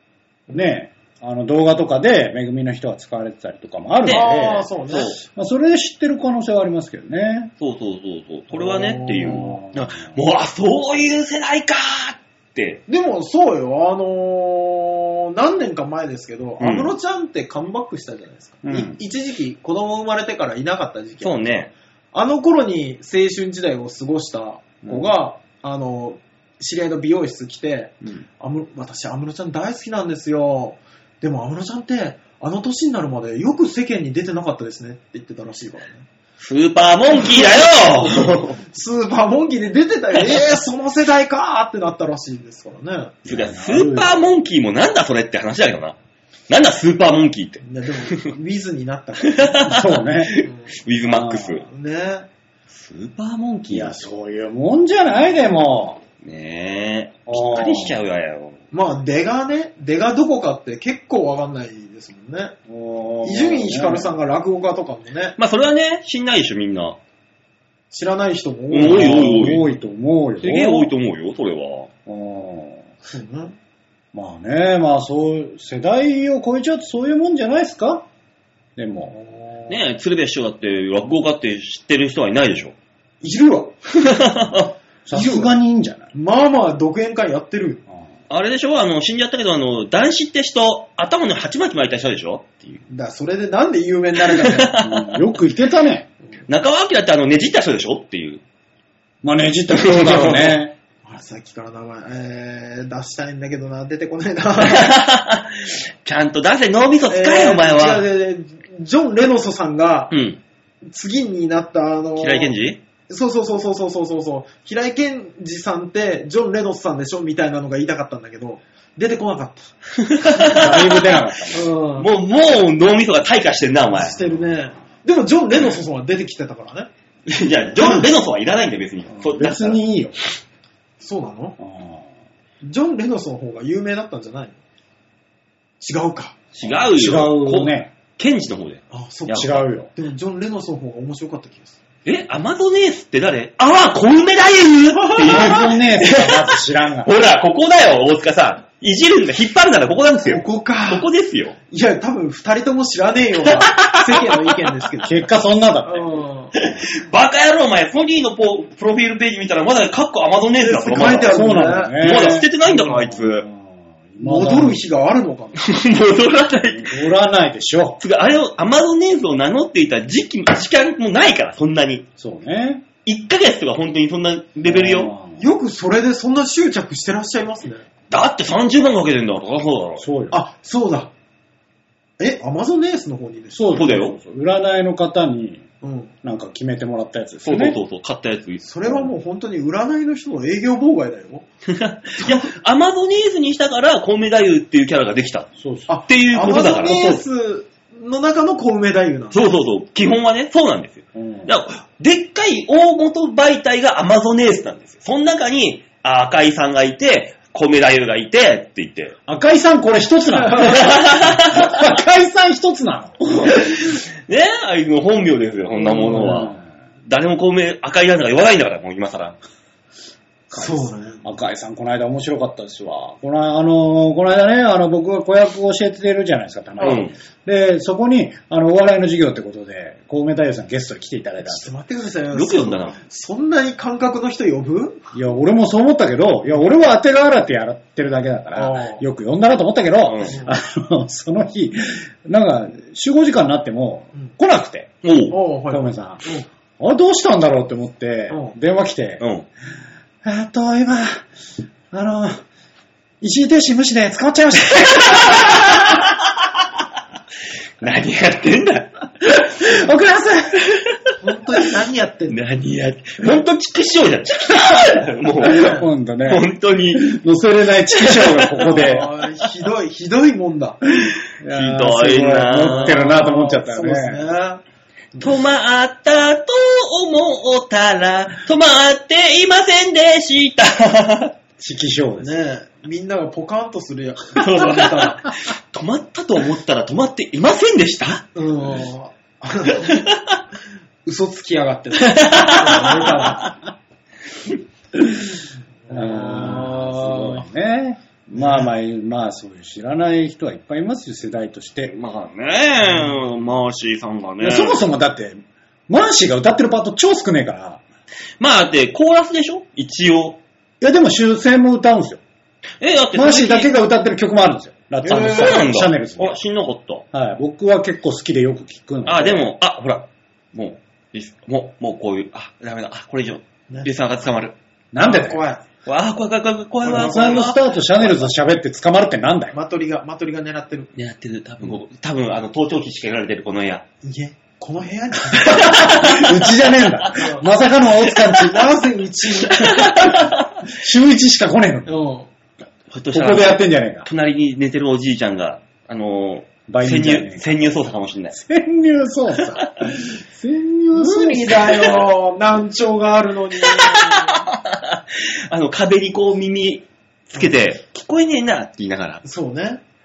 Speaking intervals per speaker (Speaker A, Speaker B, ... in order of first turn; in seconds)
Speaker A: 0.5-4.7, 5.3-7.5, 9.3-9.8, 18.6-19.0, 24.8-25.1, 43.3-44.2, 49.6-50.4, 51.1-51.6, 53.7-56.0, 57.3-58.0, 62.7-64.1, 68.8-70.9, 72.1-72.9, 74.1-78.1, 78.8-79.2, 85.0-86.1, 94.8-96.1, 99.2-100.8, 120.5-121.7, 129.2-130.2, 131.6-132.1, 136.6-137.9, 139.3-139.9, 145.2-147.1, 155.0-156.2, 161.3-164.8, 166.8-168.0, 172.2-172.9, 174.6-175.4, 180.0-180.4, 183.6-185.7, 186.2-187.8, 195.6-195.9, 201.2-201.5, 209.3-213.7, 216.1-216.6, 220.5-231.7, 235.1-244.9, 245.7-249.2, 250.2-251.3, 251.9-252.4, 253.2-255.9, 259.6-260.6, 265.4-269.1, 271.4-274.2, 281.6-282.3, 295.9-301.9, 304.4-307.8, 310.8-312.2, 313.1-316.4, 317.1-319.5, 324.9-325.4, 326.9-329.6, 335.4-338.7, 339.8-341.9, 343.1-344.1, 346.7-347.6, 348.3-352.0
Speaker B: 4.1-5.2, 8.5-9.6, 12.9-21.5, 22.1-36.1, 37.3-43.2, 47.6-49.6, 50.4-50.7, 51.6-52.3, 58.7-62.6, 63.2-65.4, 67.9-69.6, 73.0-73.6, 79.1-79.8, 83.2-83.8, 85.1-85.5, 86.1-87.8, 92.9-94.8, 101.0-104.9, 107.1-110.1, 110.8-112.5, 113.1-119.7, 121.5-122.1, 123.9-126.9, 127.8-128.1, 131.0-131.6, 132.6-134.6, 135.8-136.4, 138.9-141.8, 145.0-145.7, 150.2-151.1, 151.7-155.2, 155.8-156.5, 160.6-162.4, 164.2-165.6, 175.4-177.9, 180.3-181.1, 182.2-183.7, 185.8-186.1, 188.6-191.5, 192.2-192.5, 195.9-199.4, 215.8-216.5, 220.5-221.2, 226.8-227.1, 231.4-235.1, 238.6-239.0, 245.3-246.5, 248.3-248.6, 261.2-262.4, 268.6-270.8, 272.8-274.6, 282.2-285.2, 288.4-290.0, 291.1-293.5, 295.9-297.5, 298.4-298.7, 315.0-315.7, 325.0-325.6, 326.9-327.5, 329.5-330.9, 334.0-335.9, 337.1-337.4, 338.4-340.0, 341.9-342.3, 350.9-354.4, 359.2-359.8
Speaker C: 4.9-5.2, 7.6-12.8, 16.6-16.9, 21.2-21.7, 36.4-38.6, 43.3-46.0, 46.5-48.2, 49.2-51.6, 52.7-54.0, 56.2-58.6, 65.4-67.0, 68.7-69.7, 70.4-71.9, 79.7-82.7, 83.9-84.7, 88.3-92.8, 94.3-95.2, 96.5-98.4, 99.7-100.6, 104.6-108.0, 110.1-110.4, 112.2-112.8, 120.0-121.2, 122.0-124.2, 127.3-129.8, 136.5-139.5, 142.1-151.6, 153.6-154.7, 156.6-161.4, 162.0-163.5, 165.6-167.0, 168.0-172.1, 173.0-175.1, 178.1-180.1, 183.7-184.2, 187.4-188.7, 191.7-195.5, 196.1-197.2, 199.3-209.2, 210.6-211.8, 213.5-216.5, 217.1-219.4, 226.8-227.1, 232.3-233.0, 240.1-240.4, 245.0-245.4, 249.2-249.5, 255.0-255.9, 257.8-259.7, 260.6-261.1, 262.3-267.1, 267.9-269.0, 271.5-273.1, 275.2-281.3, 284.4-288.2, 289.8-290.4, 292.0-293.5, 301.9-304.8, 308.4-310.4, 312.8-313.8, 315.1-317.0, 319.1-324.6, 325.9-327.6, 331.0-333.9, 335.4-336.6, 339.5-340.4, 342.9-348.4, 353.7-359.2